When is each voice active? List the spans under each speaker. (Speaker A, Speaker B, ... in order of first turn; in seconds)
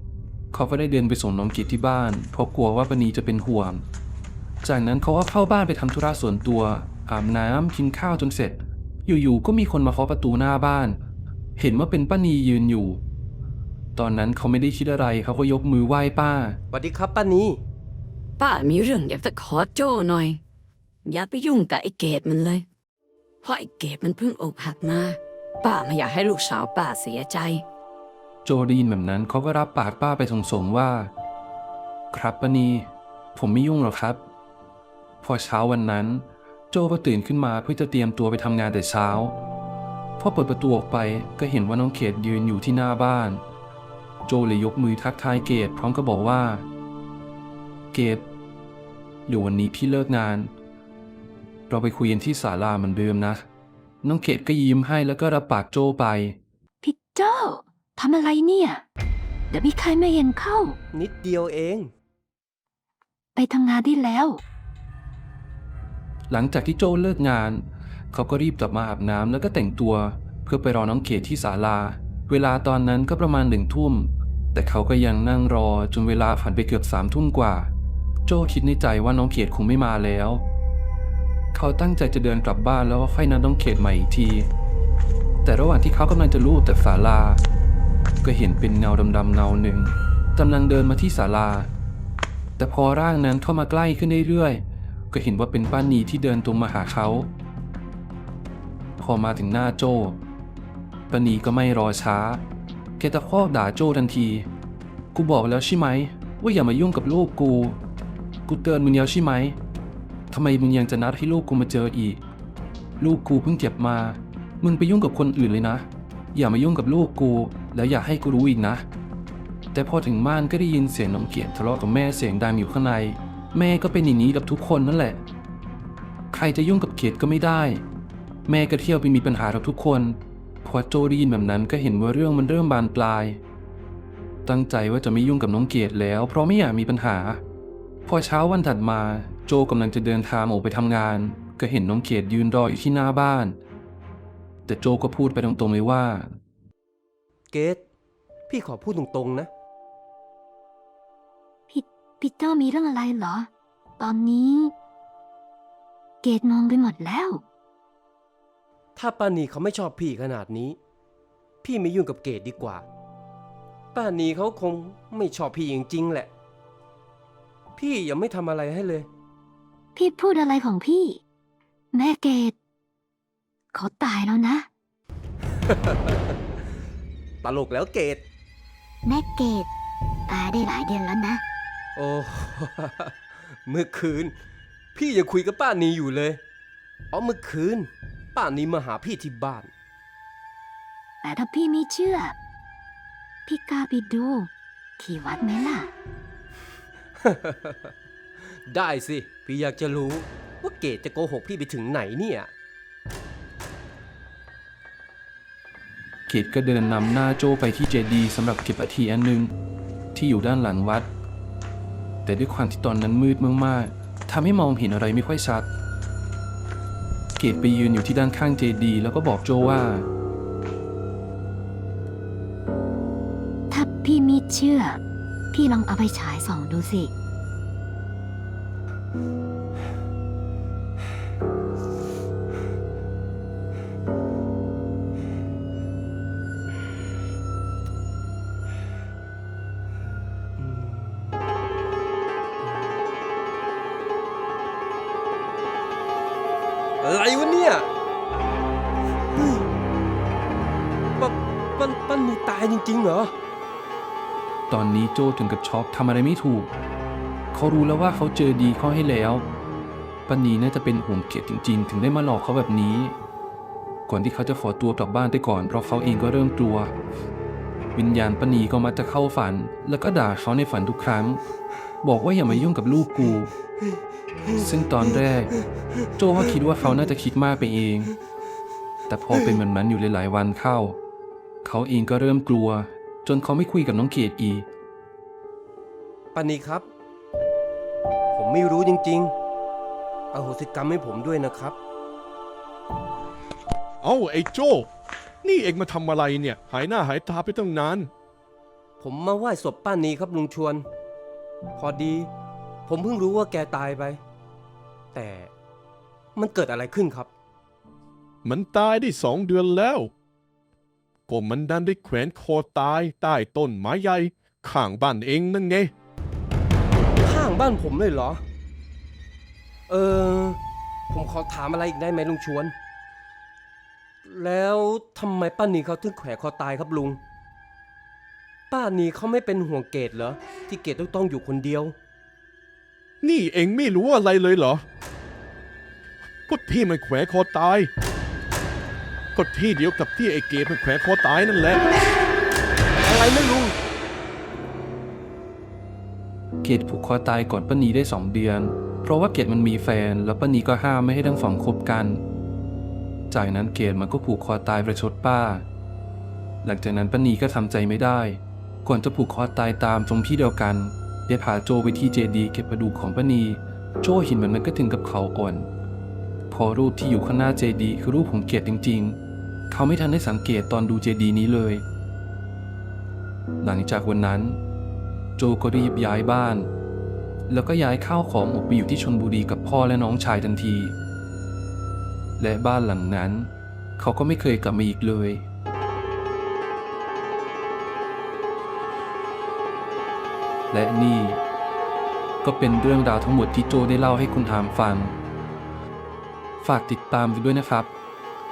Speaker A: 0.5-3.8, 4.6-11.0, 11.6-13.0, 14.0-16.6, 28.4-31.1, 32.1-34.2, 35.2-39.4, 40.2-43.4, 44.3-46.6, 47.9-48.2, 49.3-50.5, 51.7-53.4, 54.0-56.4, 66.3-77.7, 78.3-80.5, 81.5-84.5, 85.4-87.4, 88.2-91.7, 92.6-97.3, 99.0-100.2, 101.1-102.4, 103.0-104.5, 105.1-107.8, 108.5-109.6, 110.3-112.2, 113.0-118.8, 119.7-125.2, 126.3-127.8, 128.5-133.4, 134.4-137.4, 138.1-143.6, 144.7-146.3, 206.3-209.5, 210.2-211.1, 212.3-215.7, 217.4-220.1, 254.7-256.7, 257.5-259.5, 260.3-263.2, 264.1-266.9, 267.9-271.4, 272.0-273.5, 274.5-275.5, 276.1-278.1, 279.1-281.0, 281.6-284.7, 346.6-352.2, 353.3-355.7, 356.6-365.7, 366.5-369.2, 369.7-371.9, 373.6-374.6, 375.4-376.7, 377.5-381.0, 382.4-385.5, 390.7-391.4, 392.4-395.2, 396.6-397.9
Speaker B: 16.7-17.6, 60.9-61.9, 147.5-147.8, 148.5-149.5, 159.0-160.8, 161.6-162.8, 163.9-166.3, 167.8-169.1, 175.7-176.3, 177.4-178.2, 182.0-183.1, 183.7-184.3, 184.9-186.4, 187.1-189.7, 197.2-197.9, 198.7-202.5, 240.6-241.4, 242.6-243.0, 247.0-247.9, 249.3-249.7, 251.2-253.3, 286.3-286.9, 288.3-289.3, 290.3-291.8, 299.0-300.9, 301.8-302.3, 302.9-304.2, 305.1-305.5, 306.4-307.3, 317.2-318.4, 319.9-320.6, 321.1-322.7, 324.2-327.2, 328.7-331.9, 343.1-343.8
Speaker C: 18.4-20.4, 21.1-22.6, 23.4-27.6
Speaker D: 56.8-58.8, 59.5-60.8, 63.4-64.4, 151.7-153.5, 154.0-154.7, 156.2-157.4, 170.0-171.2, 171.9-172.6, 173.7-174.7, 179.1-179.7, 180.3-181.4, 191.2-192.3, 193.5-195.9, 223.7-225.0, 225.5-227.1
Speaker E: 294.0-294.9, 295.4-298.1, 308.4-310.1, 311.3-315.9, 333.2-334.9, 336.5-337.9, 339.3-341.9